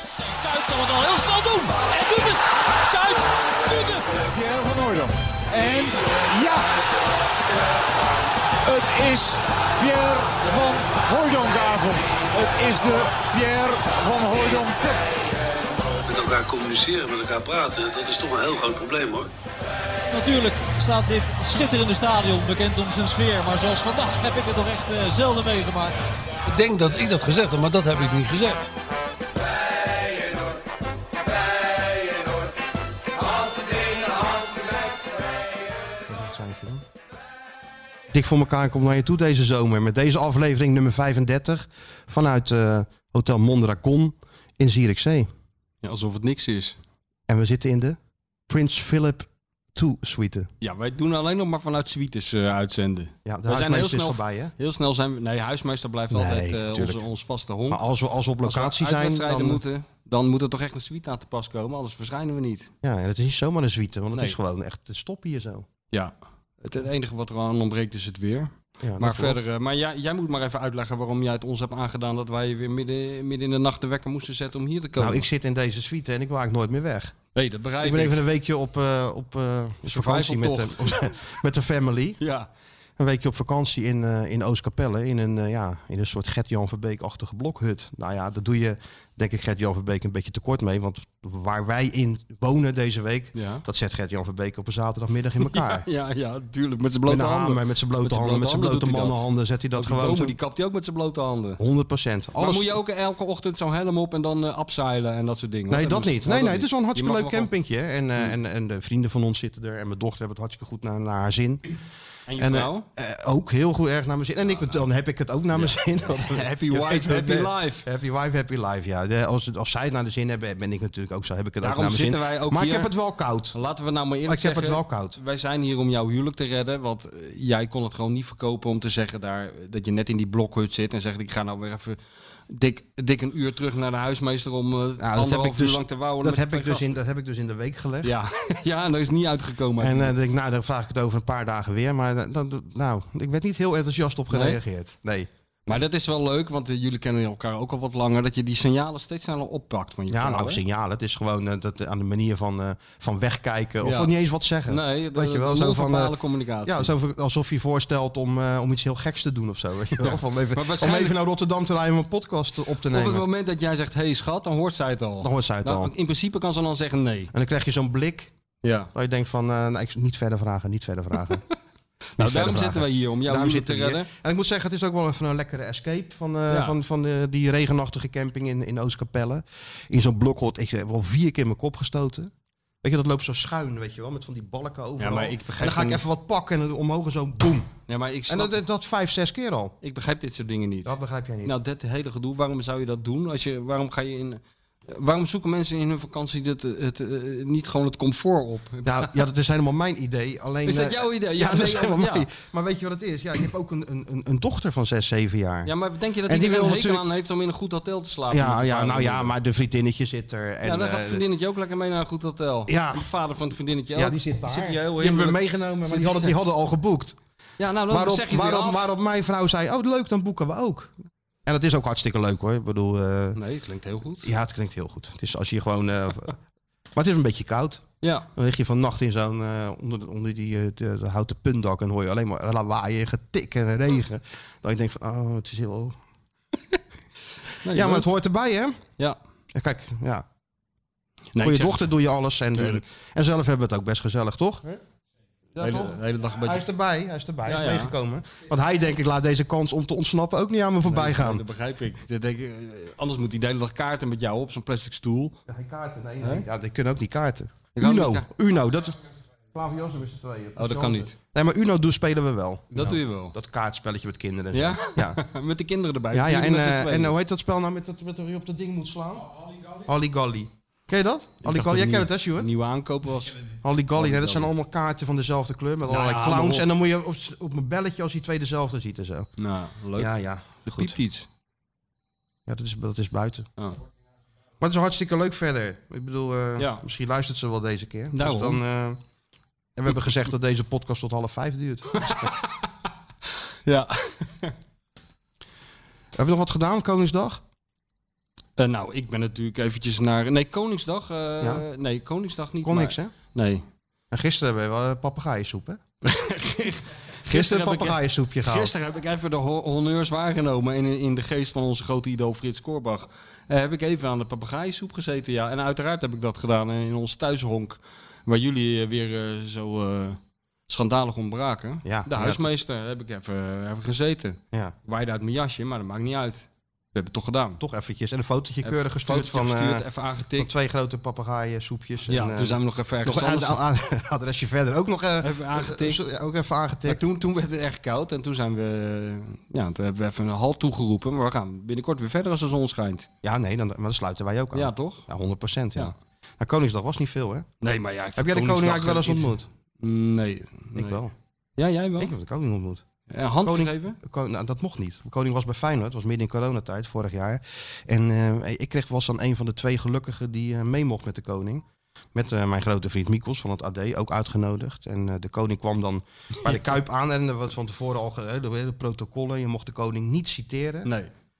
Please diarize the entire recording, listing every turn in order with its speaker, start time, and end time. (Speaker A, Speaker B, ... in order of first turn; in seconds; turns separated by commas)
Speaker A: 0.2-4.0, Speaker B: 4.3-6.7, Speaker B: 8.7-15.1, Speaker C: 16.1-19.3, Speaker A: 20.1-25.9, Speaker C: 26.5-28.6, Speaker D: 36.1-36.8, Speaker D: 38.1-45.3, Speaker E: 45.8-46.8, Speaker D: 47.3-48.0, Speaker D: 48.5-50.5, Speaker E: 50.6-57.8, Speaker D: 53.2-54.5, Speaker D: 56.1-57.0, Speaker D: 57.7-59.6, Speaker E: 58.4-62.7, Speaker D: 62.8-65.7, Speaker E: 65.9-75.3, Speaker D: 68.8-69.4, Speaker D: 75.0-77.1, Speaker E: 77.3-78.2, Speaker D: 77.8-82.2, Speaker E: 79.9-81.1, Speaker E: 82.2-82.5, Speaker D: 83.0-95.9, Speaker E: 93.3-93.6, Speaker E: 95.4-99.2, Speaker D: 97.0-100.4, Speaker E: 99.8-101.6, Speaker D: 101.6-102.7, Speaker E: 102.4-107.5, Speaker D: 105.7-111.7, Speaker E: 112.3-112.8, Speaker D: 112.4-123.5, Speaker E: 115.5-115.8, Speaker E: 116.3-117.8, Speaker E: 121.6-122.9, Speaker E: 123.5-132.0, Speaker D: 124.2-125.2, Speaker E: 132.5-136.9, Speaker D: 135.0-138.1, Speaker E: 138.0-140.1, Speaker D: 139.8-145.3, Speaker E: 144.3-144.6, Speaker E: 145.7-150.6, Speaker D: 150.1-163.2, Speaker E: 153.8-154.1, Speaker E: 154.7-156.9, Speaker E: 160.0-161.2, Speaker E: 162.9-167.3, Speaker D: 165.2-165.9, Speaker D: 167.3-168.3, Speaker E: 168.6-168.9, Speaker D: 168.9-171.4, Speaker E: 172.2-174.1, Speaker D: 172.2-182.3, Speaker E: 176.5-176.7, Speaker D: 182.8-187.7, Speaker E: 185.0-186.0, Speaker E: 187.9-188.6, Speaker D: 188.3-189.8, Speaker E: 189.8-199.2, Speaker D: 190.8-191.5, Speaker D: 198.8-205.7, Speaker E: 200.7-202.3, Speaker E: 205.6-209.3, Speaker D: 206.2-207.0, Speaker D: 208.3-211.2, Speaker E: 210.6-216.3, Speaker D: 212.7-213.1, Speaker D: 213.9-217.2, Speaker E: 217.6-218.8, Speaker D: 217.9-220.9, Speaker D: 221.4-223.4, Speaker E: 223.3-224.3, Speaker D: 224.2-226.4, Speaker D: 226.9-236.0, Speaker E: 228.0-228.3, Speaker E: 237.6-238.1, Speaker D: 237.7-238.8, Speaker D: 239.5-240.2, Speaker E: 241.3-241.9, Speaker D: 241.4-244.8, Speaker E: 242.5-242.8, Speaker D: 245.6-251.4, Speaker E: 245.6-246.6, Speaker E: 247.4-247.9, Speaker E: 250.8-255.4, Speaker D: 255.5-259.0, Speaker E: 257.7-258.3, Speaker D: 259.5-265.2, Speaker E: 260.6-261.1, Speaker E: 262.7-263.3, Speaker E: 264.5-267.1, Speaker D: 266.1-272.5, Speaker E: 271.4-273.4, Speaker D: 273.6-279.3, Speaker E: 273.9-274.5, Speaker E: 275.9-276.7, Speaker E: 279.4-281.3, Speaker D: 279.9-280.9, Speaker D: 282.5-283.5, Speaker D: 284.6-289.0, Speaker E: 286.6-286.8, Speaker E: 288.1-288.6, Speaker D: 289.8-292.3, Speaker E: 291.9-292.4, Speaker E: 293.6-294.5, Speaker D: 296.1-297.4, Speaker E: 298.6-303.6, Speaker D: 302.6-303.1, Speaker D: 304.1-305.8, Speaker E: 306.0-327.6, Speaker D: 307.2-308.7, Speaker D: 321.8-322.4, Speaker D: 327.6-329.8, Speaker E: 328.6-330.5, Speaker D: 330.4-337.1, Speaker E: 332.1-333.6, Speaker E: 335.2-336.0, Speaker E: 336.9-343.1, Speaker D: 343.2-347.5, Speaker E: 344.5-345.1, Speaker E: 347.6-351.0, Speaker D: 348.2-349.5, Speaker D: 350.7-351.1, Speaker E: 351.6-352.1, Speaker D: 352.0-352.8, Speaker E: 353.1-354.0, Speaker D: 353.4-370.9, Speaker E: 370.8-371.1